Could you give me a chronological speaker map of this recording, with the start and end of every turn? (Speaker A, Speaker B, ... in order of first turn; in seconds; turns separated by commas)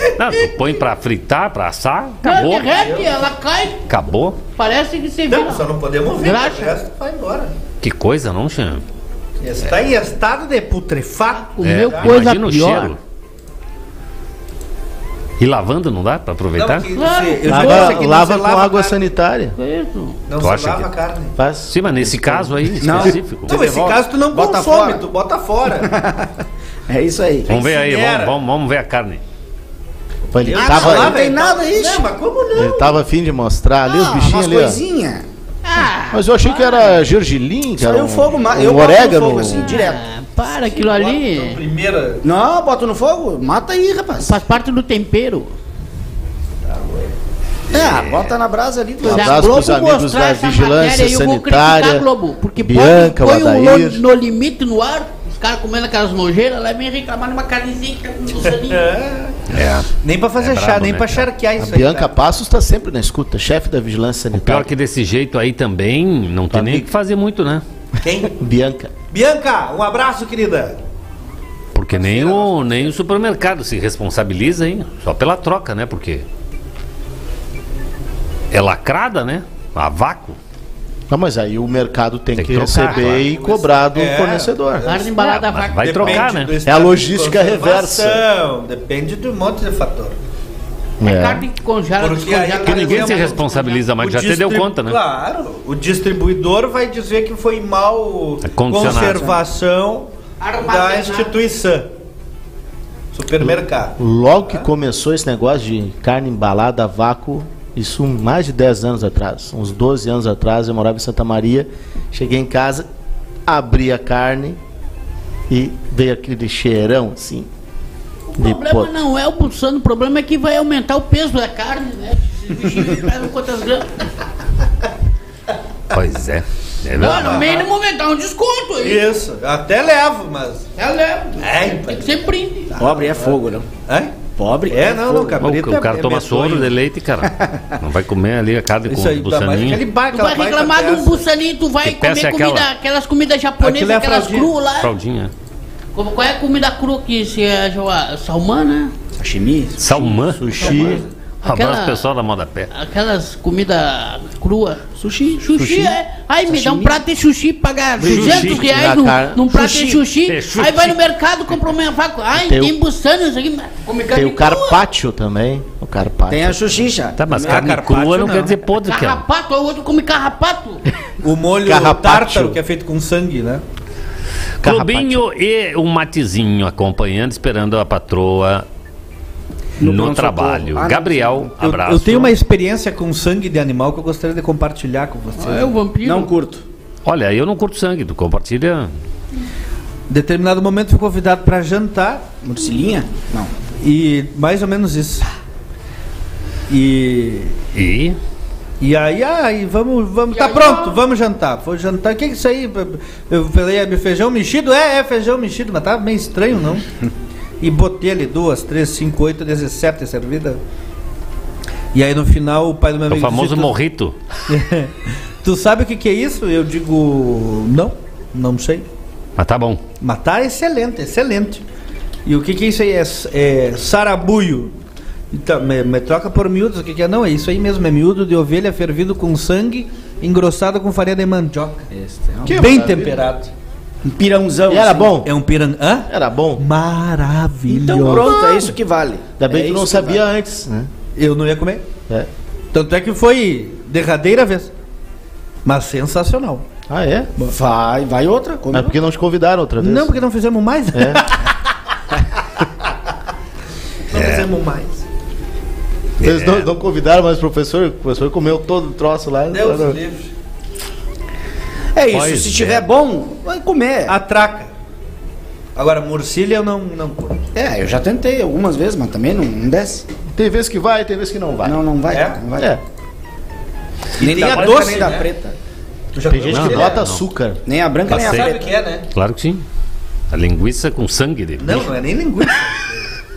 Speaker A: 0.2-2.8, Speaker B: 2.2-3.8, Speaker C: 2.7-3.3, Speaker A: 3.9-4.4, Speaker B: 4.6-6.8, Speaker C: 5.3-7.5, Speaker A: 7.8-8.8, Speaker C: 9.4-12.1, Speaker B: 11.4-12.9, Speaker A: 11.6-13.0, Speaker A: 15.4-16.9, Speaker C: 16.6-19.0, Speaker B: 16.9-18.0, Speaker D: 17.5-19.6, Speaker B: 19.6-20.2, Speaker C: 20.3-21.3, Speaker A: 20.4-20.9, Speaker D: 21.4-23.1, Speaker A: 21.7-23.5, Speaker E: 22.8-25.0, Speaker C: 23.5-25.9, Speaker E: 25.8-26.3, Speaker E: 26.9-27.5, Speaker A: 27.5-29.2, Speaker C: 27.5-28.3, Speaker D: 30.3-31.2, Speaker C: 30.4-33.0, Speaker E: 30.5-32.1, Speaker D: 32.5-34.8, Speaker E: 33.8-35.2, Speaker B: 35.6-36.9, Speaker D: 36.1-39.7, Speaker E: 37.8-40.0, Speaker B: 39.6-41.6, Speaker C: 40.5-42.2, Speaker E: 42.2-44.3, Speaker B: 44.2-45.5, Speaker C: 46.6-47.1, Speaker E: 47.7-49.7, Speaker A: 47.7-48.3, Speaker D: 49.0-52.0, Speaker B: 49.0-58.9, Speaker D: 52.6-54.0, Speaker C: 58.4-62.1, Speaker A: 59.5-61.3, Speaker D: 61.6-64.7, Speaker A: 64.3-67.6, Speaker D: 66.5-66.9, Speaker C: 68.0-68.3, Speaker D: 68.2-68.9, Speaker C: 69.1-70.8, Speaker A: 71.7-76.2, Speaker C: 71.9-72.9, Speaker A: 78.5-80.4, Speaker D: 81.1-84.8, Speaker A: 82.3-83.3, Speaker C: 82.8-85.1, Speaker B: 84.8-86.2, Speaker A: 85.2-86.5, Speaker C: 85.8-90.2, Speaker D: 86.6-88.2, Speaker D: 91.0-91.4, Speaker B: 91.0-93.8, Speaker C: 92.0-93.4, Speaker A: 92.6-95.0, Speaker C: 94.0-101.9, Speaker A: 98.4-99.4, Speaker B: 100.4-101.3, Speaker C: 103.1-103.9, Speaker D: 103.4-112.9, Speaker D: 113.5-114.6, Speaker D: 115.5-117.5, Speaker B: 118.3-123.9, Speaker D: 118.4-118.9, Speaker A: 125.9-127.5, Speaker B: 127.0-129.0, Speaker C: 127.0-127.7, Speaker C: 128.8-130.7, Speaker B: 130.8-132.7, Speaker C: 131.4-132.2, Speaker C: 132.7-134.1, Speaker E: 132.8-133.7, Speaker E: 134.4-135.4, Speaker C: 134.7-136.7, Speaker A: 135.4-139.8, Speaker C: 138.9-141.2, Speaker B: 140.1-144.9, Speaker A: 141.8-142.7, Speaker C: 143.6-144.5, Speaker A: 144.8-145.3, Speaker B: 145.9-148.9, Speaker E: 149.2-150.0, Speaker A: 149.8-150.5, Speaker D: 150.4-151.0, Speaker E: 150.6-150.9, Speaker A: 151.4-152.7, Speaker B: 151.4-152.0, Speaker B: 152.7-154.8, Speaker E: 155.0-155.5, Speaker B: 155.4-164.8, Speaker D: 155.6-155.9, Speaker E: 156.5-157.0, Speaker D: 158.0-159.6, Speaker A: 158.0-158.7, Speaker E: 159.5-159.9, Speaker A: 160.2-161.0, Speaker D: 162.4-162.8, Speaker D: 164.1-166.9, Speaker E: 166.3-167.6, Speaker A: 167.2-169.2, Speaker C: 167.4-168.6, Speaker B: 168.8-170.8, Speaker C: 171.2-173.6, Speaker D: 171.6-172.6, Speaker A: 174.6-178.7, Speaker D: 174.6-175.2, Speaker E: 179.8-181.4, Speaker A: 179.8-182.4, Speaker C: 181.6-185.7, Speaker B: 185.3-186.3, Speaker E: 186.0-186.6, Speaker A: 187.0-188.9, Speaker C: 190.1-192.2, Speaker E: 192.4-193.5, Speaker C: 193.8-195.3, Speaker C: 196.7-197.5, Speaker A: 197.7-198.2, Speaker C: 198.8-206.8, Speaker B: 200.3-201.0, Speaker C: 207.6-210.6, Speaker C: 211.9-213.8, Speaker A: 213.1-214.2, Speaker C: 214.5-218.9, Speaker A: 219.4-219.8, Speaker C: 220.0-221.6, Speaker C: 222.2-224.7, Speaker C: 225.3-231.9, Speaker E: 231.9-232.9, Speaker D: 232.4-233.2, Speaker C: 232.6-233.5, Speaker E: 234.0-235.1, Speaker D: 234.7-235.3, Speaker C: 235.2-238.5, Speaker D: 236.1-236.6, Speaker E: 237.7-240.2, Speaker D: 239.4-240.9, Speaker C: 241.2-241.8, Speaker C: 242.7-244.7, Speaker C: 245.6-246.6, Speaker D: 246.9-247.3, Speaker E: 247.4-248.9, Speaker D: 248.7-250.2, Speaker C: 249.8-251.4, Speaker D: 250.9-251.2, Speaker C: 254.1-255.0, Speaker A: 254.1-254.5, Speaker A: 256.2-256.7, Speaker D: 256.2-260.0, Speaker C: 259.5-260.3, Speaker E: 261.9-264.1, Speaker A: 262.1-262.9, Speaker C: 264.1-264.7, Speaker C: 265.8-267.4, Speaker E: 267.5-270.1, Speaker D: 270.3-271.8, Speaker E: 271.6-272.7, Speaker C: 272.1-272.4, Speaker C: 274.2-275.2, Speaker E: 274.2-275.5, Speaker A: 274.4-275.0, Speaker C: 276.1-277.0, Speaker D: 276.3-277.6, Speaker A: 276.5-277.2, Speaker E: 277.6-278.7, Speaker A: 278.1-278.5, Speaker C: 278.1-279.0, Speaker A: 279.1-279.6, Speaker A: 280.3-281.9, Speaker C: 281.6-282.9